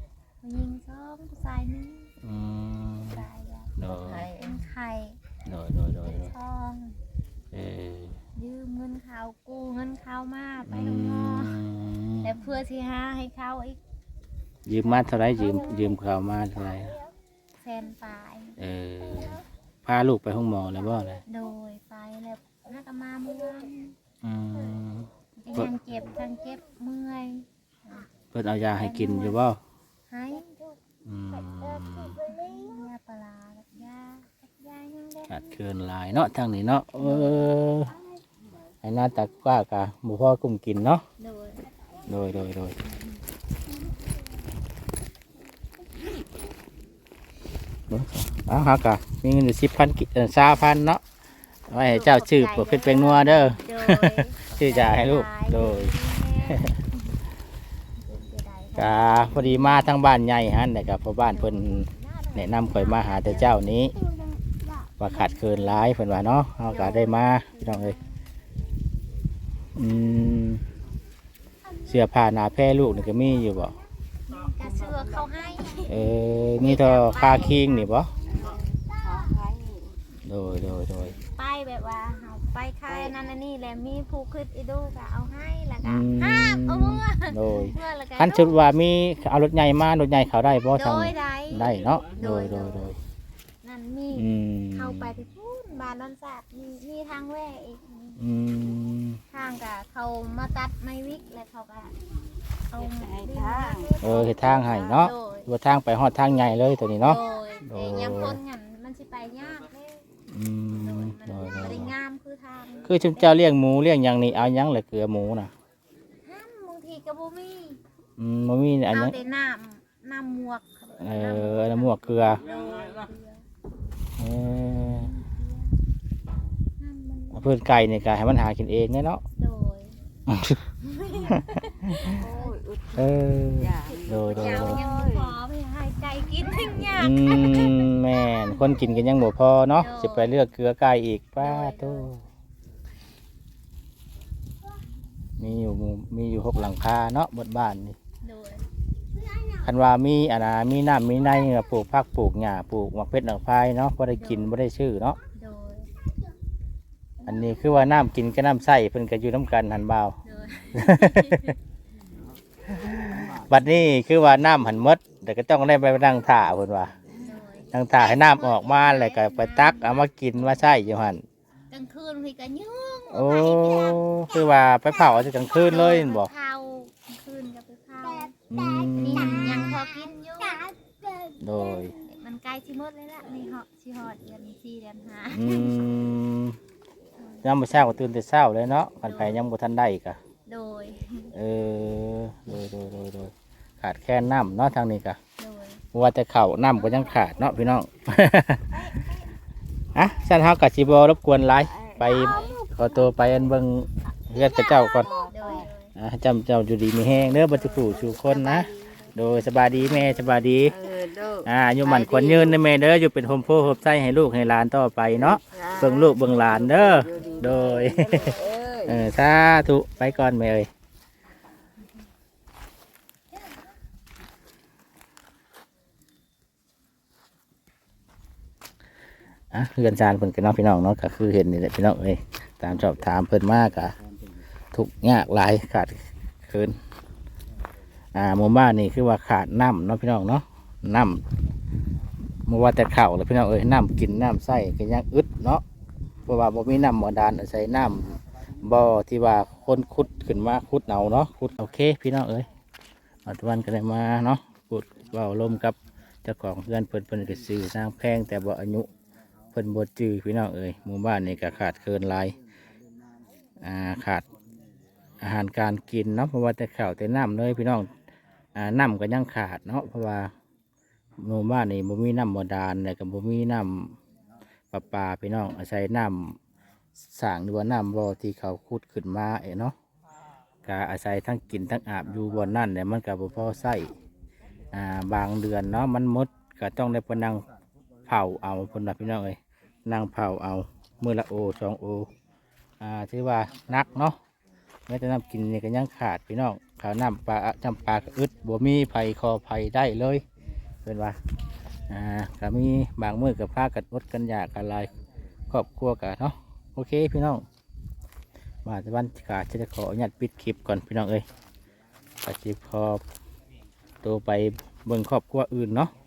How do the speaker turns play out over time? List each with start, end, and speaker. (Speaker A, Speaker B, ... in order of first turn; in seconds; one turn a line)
Speaker A: 0.4-2.1
Speaker B: 2.2-3.2
Speaker A: 3.1-3.7
Speaker B: 3.8-4.3
Speaker C: 3.9-4.7
Speaker A: 4.3-5.2
Speaker B: 5.4-6.3
Speaker A: 6.0-7.0
Speaker B: 7.5-8.2
Speaker A: 8.4-11.7
Speaker B: 10.7-12.3
Speaker A: 12.2-13.8
Speaker B: 14.7-17.0
Speaker A: 14.8-15.9
Speaker A: 17.6-18.6
Speaker B: 18.6-21.2
Speaker A: 21.3-24.0
Speaker B: 24.2-25.7
Speaker A: 25.4-28.1
Speaker B: 28.3-29.6
Speaker A: 28.7-29.4
Speaker A: 30.1-30.8
Speaker B: 31.1-32.2
Speaker A: 32.2-35.4
Speaker B: 35.3-38.0
Speaker A: 37.0-37.5
Speaker B: 38.8-41.0
Speaker A: 41.2-41.7
Speaker B: 42.1-42.8
Speaker B: 47.9-51.0
Speaker B: 51.7-55.9
Speaker A: 51.9-57.1
Speaker B: 56.5-56.8
Speaker A: 58.0-59.9
Speaker B: 58.8-64.0
Speaker A: 61.3-63.7
Speaker B: 65.0-68.0
Speaker A: 65.1-65.5
Speaker A: 66.7-68.0
Speaker B: 69.8-70.6
Speaker B: 71.9-73.8
Speaker A: 74.3-78.4
Speaker B: 75.9-78.1
Speaker C: 78.3-80.0
Speaker B: 80.3-81.2
Speaker A: 81.2-88.7
Speaker C: 82.9-83.2
Speaker B: 85.8-93.0
Speaker A: 90.7-92.9
Speaker A: 93.6-98.2
Speaker B: 94.1-95.3
Speaker B: 98.2-99.2
Speaker A: 99.3-102.0
Speaker A: 102.7-105.5
Speaker C: 102.8-104.0
Speaker B: 104.0-108.4
Speaker A: 107.0-110.0
Speaker B: 110.3-112.0
Speaker A: 110.7-113.5
Speaker B: 112.8-115.5
Speaker A: 116.2-117.8
Speaker B: 118.2-119.2
Speaker A: 118.9-123.4
Speaker B: 121.0-122.4
Speaker B: 124.2-125.1
Speaker A: 124.8-125.7
Speaker A: 126.8-127.5
Speaker B: 127.3-129.2
Speaker A: 129.4-130.0
Speaker B: 130.3-130.6
Speaker A: 130.8-132.6
Speaker B: 131.3-132.2
Speaker C: 132.1-135.4
Speaker B: 133.0-134.8
Speaker A: 133.9-137.9
Speaker B: 136.9-142.2
Speaker A: 139.8-140.4
Speaker A: 141.4-142.1
Speaker B: 145.4-148.0
Speaker A: 148.2-148.7
Speaker B: 149.6-155.2
Speaker A: 154.2-154.5
Speaker A: 155.3-155.9
Speaker A: 157.2-157.8
Speaker B: 157.3-160.2
Speaker A: 160.2-161.6
Speaker B: 160.7-161.6
Speaker B: 162.8-166.9
Speaker A: 167.2-170.6
Speaker B: 167.7-171.2
Speaker A: 171.7-178.4
Speaker B: 173.1-176.3
Speaker B: 178.5-179.8
Speaker A: 178.9-180.7
Speaker B: 181.4-181.9
Speaker A: 182.0-185.9
Speaker B: 185.3-186.6
Speaker A: 187.2-187.5
Speaker B: 187.4-190.2
Speaker A: 189.1-189.4
Speaker A: 190.5-191.3
Speaker B: 191.3-195.2
Speaker A: 195.4-195.8
Speaker B: 195.9-198.8
Speaker A: 196.6-197.7
Speaker A: 198.7-199.2
Speaker B: 199.9-205.1
Speaker C: 201.6-202.6
Speaker A: 202.1-202.5
Speaker C: 204.6-205.7
Speaker A: 205.3-205.9
Speaker B: 205.9-210.8
Speaker A: 207.3-210.3
Speaker C: 210.7-212.6
Speaker B: 211.4-220.7
Speaker C: 215.3-219.1
Speaker A: 217.1-218.4
Speaker B: 229.5-233.9
Speaker B: 234.7-236.8
Speaker B: 238.2-241.2
Speaker B: 242.4-245.6
Speaker B: 246.3-252.5
Speaker B: 253.3-258.9
Speaker B: 259.5-262.4
Speaker B: 263.6-264.2
Speaker B: 265.2-267.9
Speaker B: 268.6-270.3
Speaker B: 271.2-274.0
Speaker B: 274.7-276.4
Speaker B: 277.1-279.8
Speaker B: 280.6-283.9
Speaker B: 284.7-287.4
Speaker B: 288.1-292.1
Speaker B: 292.8-294.2
Speaker B: 294.9-300.2
Speaker B: 300.8-301.2
Speaker B: 301.9-304.9
Speaker B: 305.5-307.4
Speaker B: 308.6-311.2
Speaker B: 312.2-313.0
Speaker B: 314.0-315.9